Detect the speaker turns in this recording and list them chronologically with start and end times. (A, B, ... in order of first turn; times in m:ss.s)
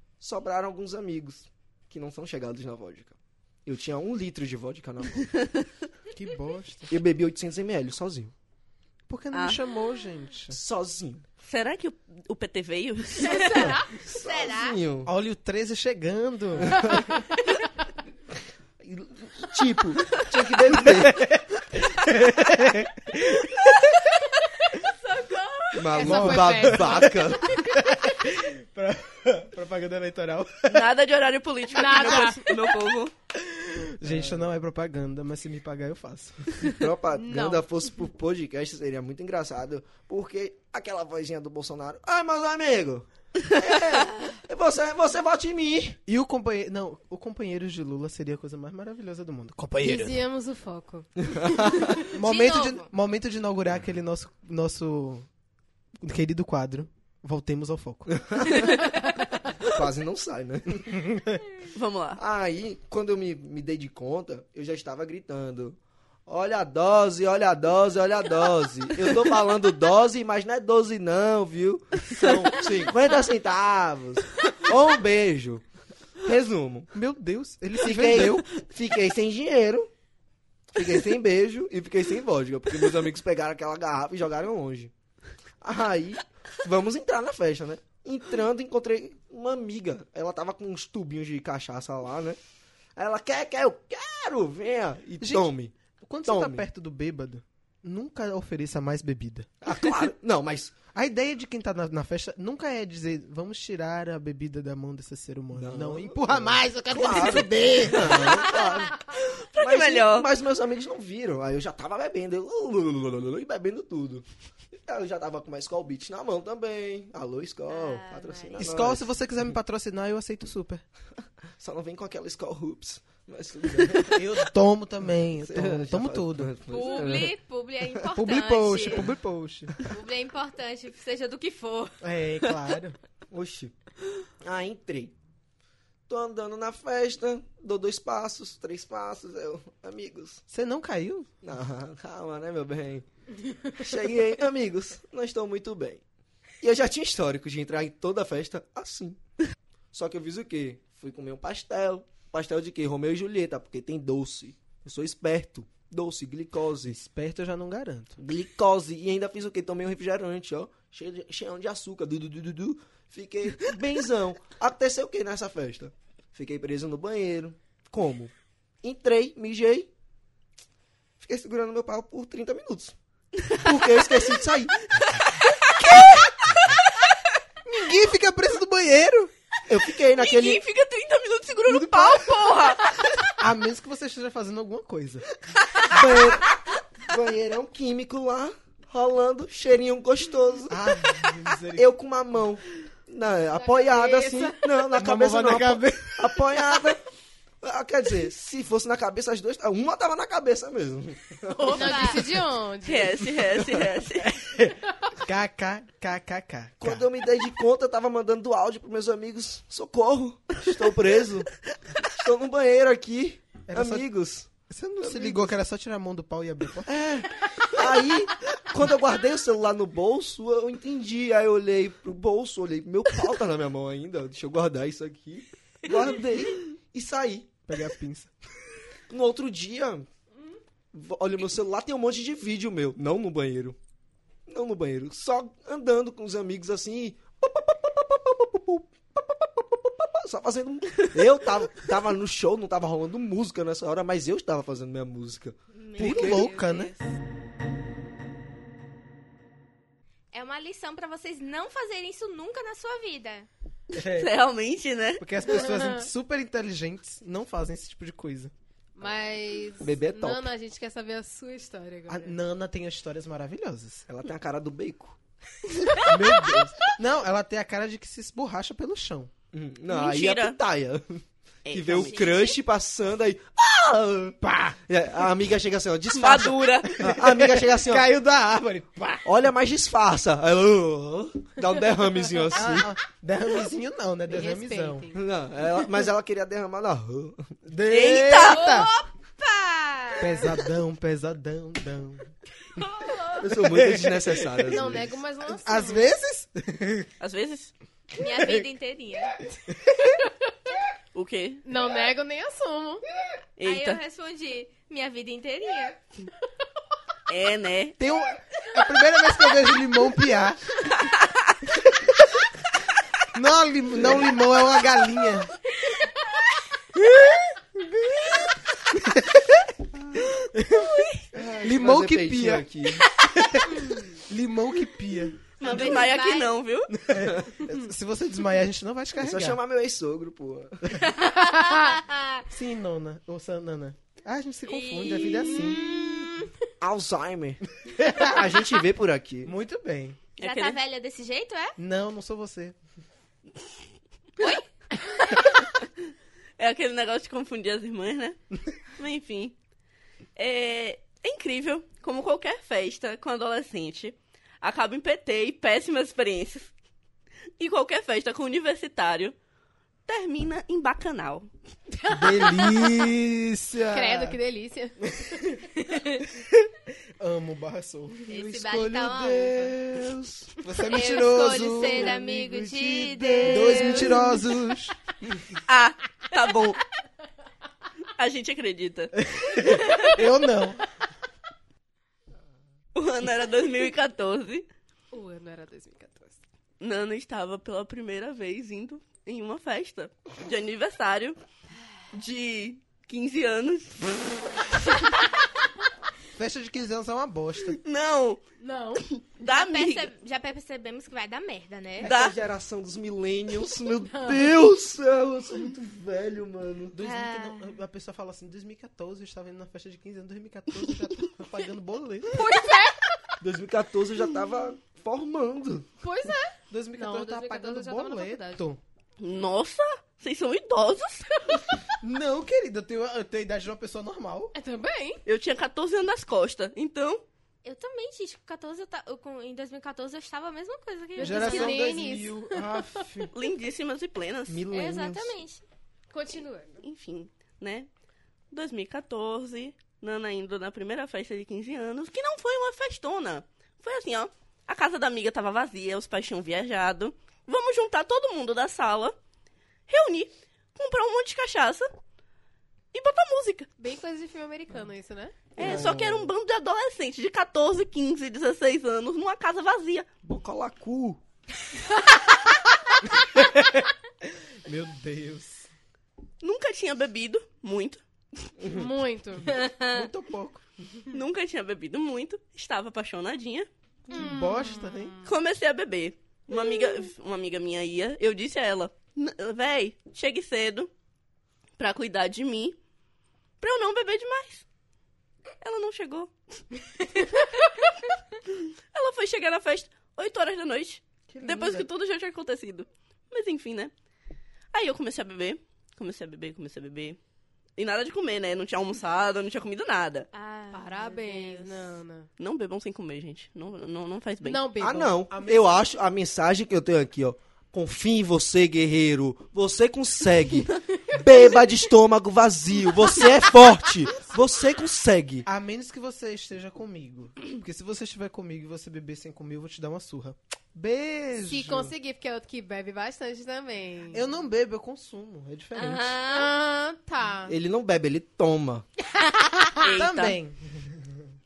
0:00.2-0:05.3 A
0:05.4-0:05.6 B
0:06.1-0:06.9 C
0:06.9-0:08.3 A
0:09.1-0:10.6 C
0:09.3-0:09.6 B
0:10.5-0:11.2 A
0:11.4-0:13.5 B
0:13.2-0:14.8 D
0:13.2-0:13.9 E
0:13.5-0:15.1 A
0:15.0-0:16.9 C
0:16.6-0:17.1 A
0:18.8-0:21.4 A
0:20.7-0:24.0 C
0:25.7-0:27.7 E
0:25.7-0:27.6 A
0:26.0-0:30.9 C
0:30.7-0:33.1 B
0:31.7-0:32.6 E
0:33.3-0:36.7 C
0:34.0-0:34.4 A
0:36.6-0:46.0 A
0:37.2-0:37.6 E
0:46.1-0:50.2 C
0:49.8-0:51.2 E
0:51.2-0:52.0 A
0:52.0-0:55.3 C
0:52.1-0:52.9 D
0:56.0-0:58.2 C
0:58.1-1:01.1 A
1:00.9-1:01.4 C
1:01.7-1:02.2 B
1:02.2-1:15.6 A
1:16.2-1:16.9 A
1:16.9-1:18.5 C
1:17.8-1:19.9 A
1:20.7-1:24.9 A
1:25.6-1:32.4 A
1:33.0-1:36.6 A
1:35.2-1:35.5 C
1:36.0-1:39.5 C
1:39.6-1:40.8 A
1:40.9-1:48.5 C
1:45.5-1:54.2 A
1:49.1-1:50.3 B
1:54.8-1:59.1 A
1:57.7-1:58.6 D
1:58.6-2:00.8 C
2:01.6-2:04.3 A
2:04.1-2:06.5 C
2:05.4-2:07.4 A
2:06.7-2:09.1 D
2:08.1-2:09.7 C
2:09.8-2:12.6 D
2:12.0-2:13.0 C
2:13.3-2:13.7 A
2:14.4-2:15.1 A
2:16.1-2:20.4 A
2:20.5-2:21.3 C
2:21.4-2:23.1 A
2:23.6-2:26.0 A
2:26.6-2:29.2 A
2:29.9-2:37.0 A
2:36.8-2:38.2 C
2:38.2-2:49.9 A
2:51.2-2:53.0 A
2:53.5-2:54.9 A
2:55.4-2:56.5 B
2:57.6-2:59.3 C
2:59.6-3:00.6 A
3:00.1-3:03.2 B
3:01.7-3:02.4 C
3:03.3-3:05.3 C
3:05.9-3:11.0 A
3:10.7-3:11.9 C
3:11.7-3:17.0 A
3:13.6-3:14.5 E
3:14.9-3:16.6 C
3:17.6-3:22.2 A
3:21.5-3:23.4 E
3:21.7-3:22.3 D
3:22.8-3:24.4 B
3:24.3-3:27.0 C
3:26.8-3:35.5 A
3:33.7-3:34.1 C
3:34.7-3:37.0 C
3:36.8-3:47.5 A
3:47.7-3:48.3 C
3:49.1-3:50.1 A
3:50.9-3:53.8 A
3:54.5-4:06.4 A
4:05.7-4:07.1 D
4:06.0-4:06.9 C
4:10.3-4:13.5 D
4:13.9-4:15.2 B
4:14.0-4:14.3 C
4:15.2-4:18.5 C
4:15.5-4:16.0 E
4:19.0-4:22.4 E
4:19.8-4:20.5 A
4:22.1-4:24.0 C
4:24.1-4:25.2 A
4:26.0-4:29.3 C
4:29.5-4:38.1 A
4:29.9-4:30.6 B
4:31.6-4:32.3 B
4:31.9-4:32.6 D
4:34.4-4:34.8 C
4:36.1-4:37.0 B
4:37.0-4:39.2 C
4:39.2-4:42.9 A
4:42.5-4:45.1 C
4:44.3-4:45.2 E
4:45.1-4:47.6 A
4:47.6-4:48.9 C
4:47.9-4:48.8 B
4:48.3-4:50.6 D
4:50.2-4:52.3 C
4:52.8-4:53.5 D
4:53.4-4:55.1 A
4:53.6-4:57.1 C
4:54.7-4:56.1 E
4:57.2-4:57.7 B
4:58.1-4:59.5 D
4:58.2-4:58.7 C
4:59.7-5:00.2 C
5:01.1-5:01.6 B
5:01.6-5:03.0 E
5:03.6-5:04.0 B
5:03.6-5:06.0 D
5:07.3-5:08.0 B
5:08.0-5:10.8 C
5:11.0-5:11.6 B
5:13.3-5:15.6 C
5:16.9-5:19.7 C
5:20.4-5:21.1 C
5:20.8-5:21.0 B
5:21.3-5:23.2 A
5:21.6-5:25.4 C
5:25.6-5:26.9 B
5:25.6-5:26.5 D
5:26.9-5:29.6 C
5:27.2-5:27.6 A
5:29.2-5:31.1 A
5:31.2-5:32.4 D
5:32.5-5:35.8 C
5:34.7-5:36.5 D
5:36.8-5:37.7 A
5:37.8-5:38.5 C
5:38.2-5:39.5 A
5:39.4-5:40.2 C
5:40.4-5:40.8 B
5:40.4-5:41.8 D
5:41.8-5:42.8 C
5:44.4-5:44.6 D
5:46.6-5:48.4 B
5:49.0-5:49.6 B
5:50.4-5:56.7 B
5:57.6-5:59.3 B
6:00.0-6:01.5 B
6:02.0-6:02.8 E
6:02.1-6:04.4 C
6:03.9-6:06.3 E
6:05.1-6:05.6 C
6:06.3-6:08.2 C
6:08.3-6:09.8 D
6:08.3-6:10.6 A
6:10.6-6:12.3 C
6:10.8-6:14.4 D
6:11.8-6:14.2 A
6:13.4-6:15.0 C
6:15.6-6:16.8 B
6:18.1-6:20.1 B
6:19.2-6:20.8 C
6:22.9-6:24.7 B
6:25.1-6:26.4 E
6:26.8-6:31.4 B
6:32.1-6:35.2 B
6:36.4-6:37.8 C
6:37.8-6:38.4 B
6:38.6-6:39.0 E
6:39.0-6:40.1 B
6:39.4-6:42.1 D
6:42.0-6:47.0 A
6:42.0-6:42.4 B
6:44.1-6:44.4 E
6:46.9-6:52.6 C
6:47.0-6:47.7 D
6:52.3-6:53.3 E
6:53.4-6:55.9 A
6:56.0-6:58.6 E
6:56.7-6:58.8 C
6:59.2-7:01.8 B
7:02.0-7:04.5 C
7:04.5-7:05.2 E
7:05.2-7:07.2 B
7:07.6-7:11.9 D
7:11.1-7:13.0 E
7:11.2-7:13.3 C
7:13.3-7:14.6 B
7:14.5-7:15.3 A
7:14.7-7:15.6 D
7:16.1-7:16.8 E
7:16.8-7:17.9 B
7:18.5-7:29.2 B
7:29.9-7:31.9 B
7:32.9-7:33.7 B
7:33.8-7:35.5 E
7:35.6-7:40.1 B
7:35.6-7:36.2 A
7:35.6-7:36.2 C
7:40.2-7:41.2 A
7:43.2-7:45.7 C
7:46.4-7:48.5 B
7:48.6-7:48.9 A
7:48.6-7:49.5 E
7:49.5-7:50.1 D
7:49.8-7:50.6 C
7:51.1-7:53.7 B
7:54.1-7:55.1 C
7:54.1-7:55.3 E
7:55.2-8:00.9 B
8:01.8-8:02.8 B
8:03.6-8:04.6 B
8:05.6-8:06.3 B
8:07.1-8:07.4 B
8:08.5-8:13.9 B
8:11.3-8:11.9 C
8:14.7-8:17.2 B
8:17.8-8:20.3 B
8:20.3-8:22.0 D
8:20.7-8:22.3 E
8:22.4-8:24.6 B
8:24.4-8:25.3 E
8:24.8-8:35.4 A
8:25.3-8:25.8 C
8:35.4-8:41.9 C
8:41.4-8:44.2 E
8:44.1-8:46.2 C
8:45.7-8:46.5 D
8:46.2-8:47.6 E
8:47.4-8:48.9 A
8:49.2-8:49.8 E
8:49.8-8:50.4 B
8:49.9-8:51.2 C